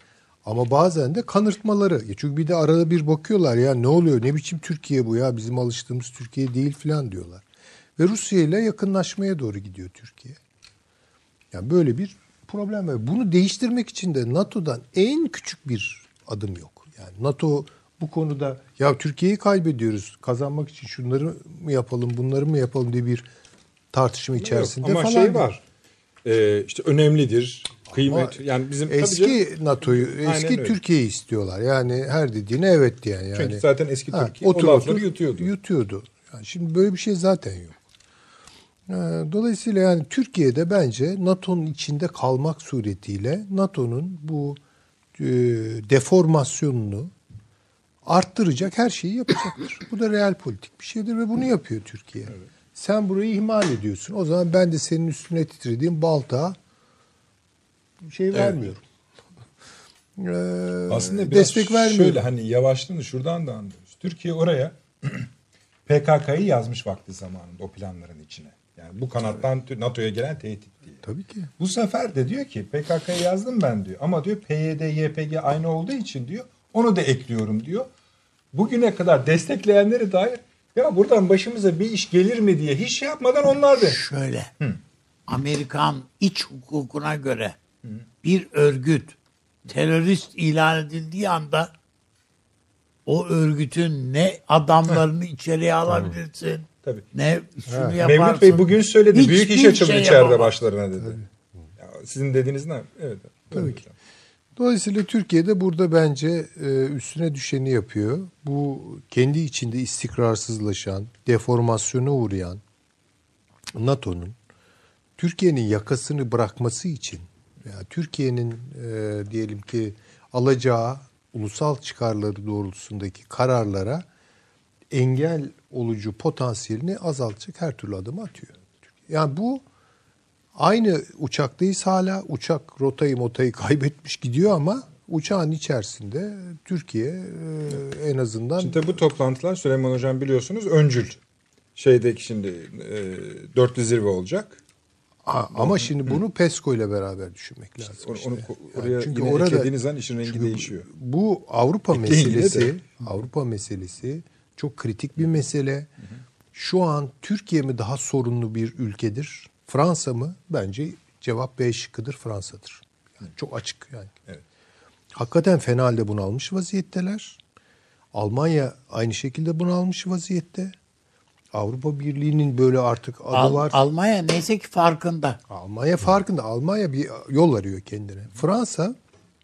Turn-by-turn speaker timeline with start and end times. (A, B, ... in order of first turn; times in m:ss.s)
0:00.4-0:07.4 A
0:08.0-0:10.4 A
0:11.5-0:23.3 A
0:23.9-0:25.5 A
0:24.4-0:25.6 B
0:26.2-0:30.8 B
0:27.9-0:37.8 A
0:33.3-0:35.5 B
0:38.9-0:44.6 A
0:45.2-0:47.1 A
0:48.0-0:56.6 A
0:58.0-0:58.8 A
0:58.3-0:58.6 B
1:00.2-1:02.2 A
1:00.9-1:05.3 B
1:05.9-1:11.0 B
1:11.0-1:11.5 A
1:11.6-1:17.9 B
1:18.5-1:24.0 B
1:23.8-1:24.5 C
1:25.3-1:27.6 C
1:28.2-1:29.2 C
1:29.7-1:31.7 C
1:33.1-1:40.6 C
1:37.7-1:38.0 A
1:38.0-1:41.2 B
1:41.0-1:41.3 A
1:41.8-1:43.9 B
1:43.5-1:43.8 A
1:44.6-1:52.6 A
1:53.7-1:54.4 A
1:55.2-2:04.1 A
2:04.9-2:09.6 A
2:10.6-2:19.0 A
2:18.6-2:21.2 B
2:21.8-2:24.6 B
2:25.2-2:35.9 A
2:25.6-2:26.2 B
2:27.8-2:30.9 B
2:31.9-2:32.7 B
2:36.5-2:44.2 A
2:45.1-2:47.4 A
2:48.1-2:50.8 A
2:51.5-2:53.8 A
2:53.3-2:55.4 C
2:55.5-2:59.0 A